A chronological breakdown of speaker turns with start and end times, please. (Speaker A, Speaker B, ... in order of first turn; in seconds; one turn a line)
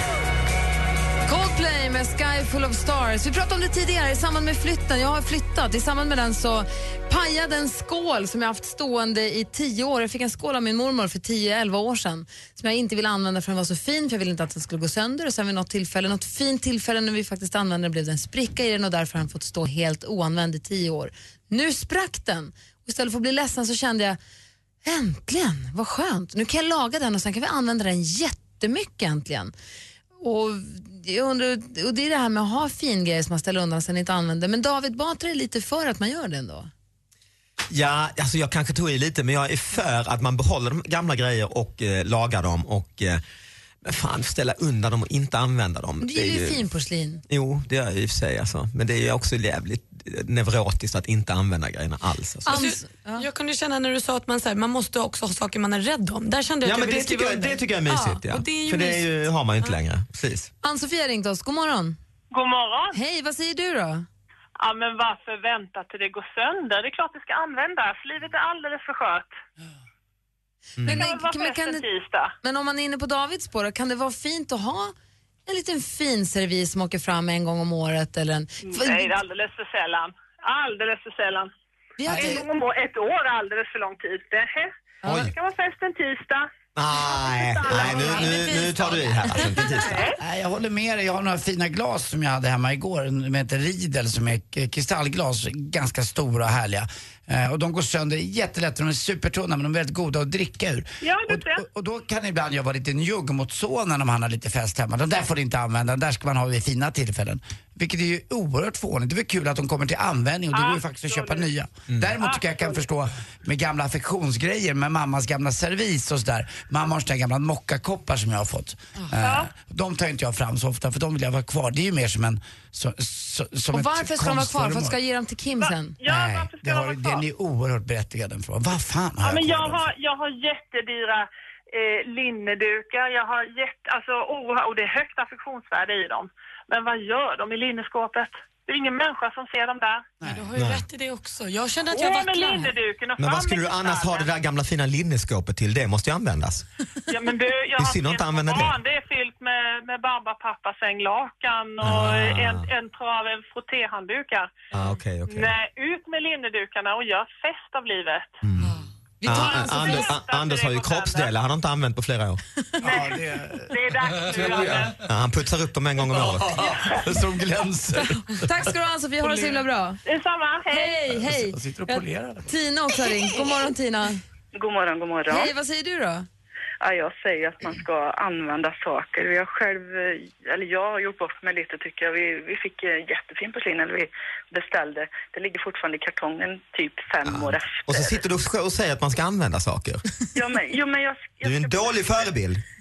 Speaker A: 1.3-24.2
Speaker A: 24.9-29.5
Speaker A: 30.2-36.7
Speaker B: 37.7-43.2
Speaker B: 43.8-46.6
Speaker A: 46.0-47.2
Speaker B: 47.3-52.6
Speaker A: 52.5-53.2
Speaker C: 52.5-59.1
Speaker B: 56.6-60.5
Speaker A: 60.6-62.0
Speaker D: 62.3-63.0
Speaker A: 62.9-64.1
Speaker D: 64.6-69.4
Speaker B: 70.8-71.1
Speaker A: 70.8-71.8
Speaker D: 70.9-72.3
Speaker A: 72.4-74.9
Speaker A: 75.5-79.2
Speaker D: 78.6-81.5
Speaker A: 82.0-82.5
Speaker E: 82.1-82.4
Speaker D: 82.1-90.2
Speaker B: 85.0-85.3
Speaker B: 86.8-90.1
Speaker C: 88.4-89.5
Speaker E: 90.2-125.0
Speaker D: 101.0-101.6
Speaker D: 110.5-111.5
Speaker D: 112.2-112.8
Speaker D: 119.2-119.5
Speaker A: 123.7-126.0
Speaker D: 125.6-127.2
Speaker E: 126.0-129.9
Speaker D: 129.2-140.1
Speaker C: 140.2-142.8
Speaker B: 140.6-140.8
Speaker D: 141.9-144.3
Speaker B: 143.2-146.7
Speaker D: 147.1-154.5
Speaker B: 147.8-148.8
Speaker B: 151.8-152.7
Speaker B: 154.7-155.6
Speaker D: 155.3-158.3
Speaker B: 158.4-162.4
Speaker A: 159.2-160.2
Speaker D: 159.3-161.3
Speaker E: 162.8-164.8
Speaker D: 162.8-165.0
Speaker B: 165.0-166.8
Speaker E: 166.1-168.5
Speaker A: 168.2-170.0
Speaker D: 169.3-171.0
Speaker A: 170.7-174.2
Speaker E: 171.1-172.5
Speaker F: 174.5-175.5
Speaker A: 175.3-176.3
Speaker F: 176.8-188.2
Speaker B: 187.2-190.1
Speaker F: 190.3-192.3
Speaker B: 191.4-192.6